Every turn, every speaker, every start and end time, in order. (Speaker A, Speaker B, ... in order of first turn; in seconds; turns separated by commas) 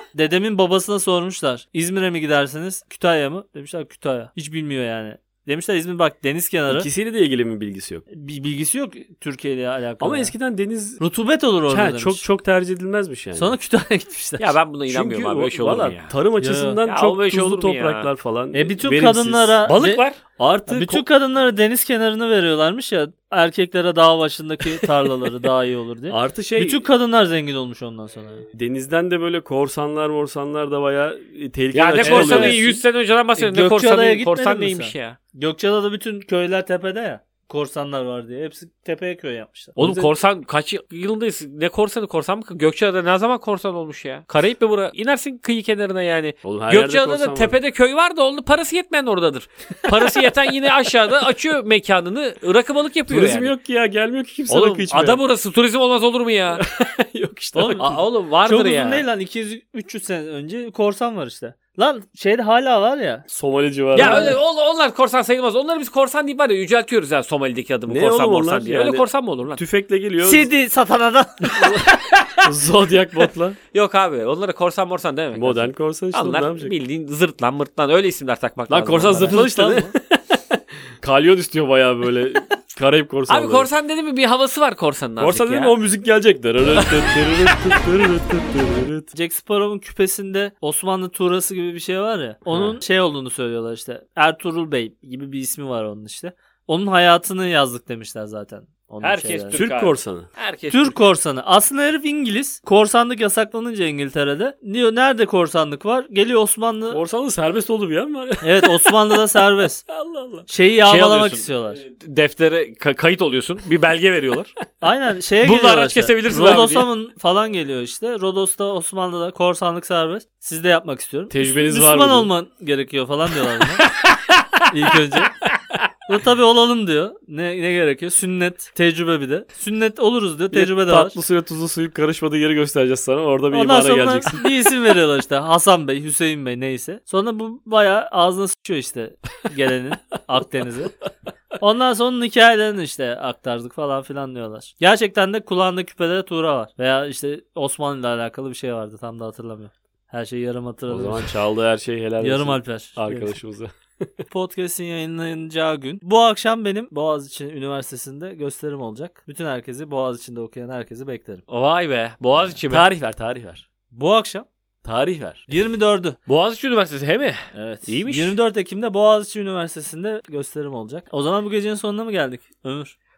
Speaker A: 0.1-6.9, Speaker B: 6.7-8.0, Speaker A: 8.1-10.3, Speaker B: 10.0-11.0, Speaker A: 11.0-12.2, Speaker B: 11.7-13.5, Speaker A: 13.3-14.5, Speaker C: 14.4-16.1, Speaker B: 14.9-19.6, Speaker A: 16.4-16.8, Speaker C: 16.9-18.1, Speaker A: 18.5-20.0, Speaker C: 19.6-20.2, Speaker B: 20.4-21.0, Speaker A: 20.7-28.5, Speaker B: 26.1-26.8, Speaker B: 28.5-32.7, Speaker C: 31.7-35.2, Speaker A: 32.0-32.8, Speaker A: 33.4-40.1, Speaker C: 39.8-53.5, Speaker B: 46.4-47.6, Speaker B: 53.1-55.2, Speaker C: 54.5-56.6, Speaker B: 56.5-58.0, Speaker A: 57.5-57.9, Speaker C: 57.8-59.0, Speaker A: 58.4-63.2, Speaker B: 63.3-64.4, Speaker A: 63.9-64.3, Speaker C: 63.9-69.6, Speaker B: 67.9-70.5, Speaker A: 70.2-71.9, Speaker B: 71.5-73.6, Speaker C: 73.7-79.4, Speaker B: 75.3-76.7, Speaker B: 78.7-83.7, Speaker A: 79.1-79.9, Speaker C: 83.3-85.7, Speaker B: 85.2-89.1, Speaker A: 89.1-99.6, Speaker B: 92.5-92.8, Speaker C: 99.0-101.0, Speaker B: 99.5-100.3, Speaker A: 100.7-107.0, Speaker B: 106.9-109.2, Speaker A: 108.4-109.8, Speaker B: 109.9-110.5, Speaker A: 110.5-111.8, Speaker C: 110.8-114.5, Speaker A: 114.8-123.8, Speaker C: 115.4-116.9, Speaker B: 121.3-122.3, Speaker C: 123.9-124.5, Speaker A: 124.7-125.3, Speaker A: 126.0-131.1, Speaker B: 130.5-134.5, Speaker A: 133.5-140.9, Speaker A: 141.6-151.3, Speaker B: 150.9-154.2, Speaker A: 152.2-153.3, Speaker A: 154.3-161.4, Speaker C: 161.5-162.8, Speaker B: 162.6-163.6, Speaker A: 163.9-164.5, Speaker B: 164.8-165.5, Speaker A: 165.5-166.2, Speaker C: 166.3-168.3, Speaker A: 167.5-172.9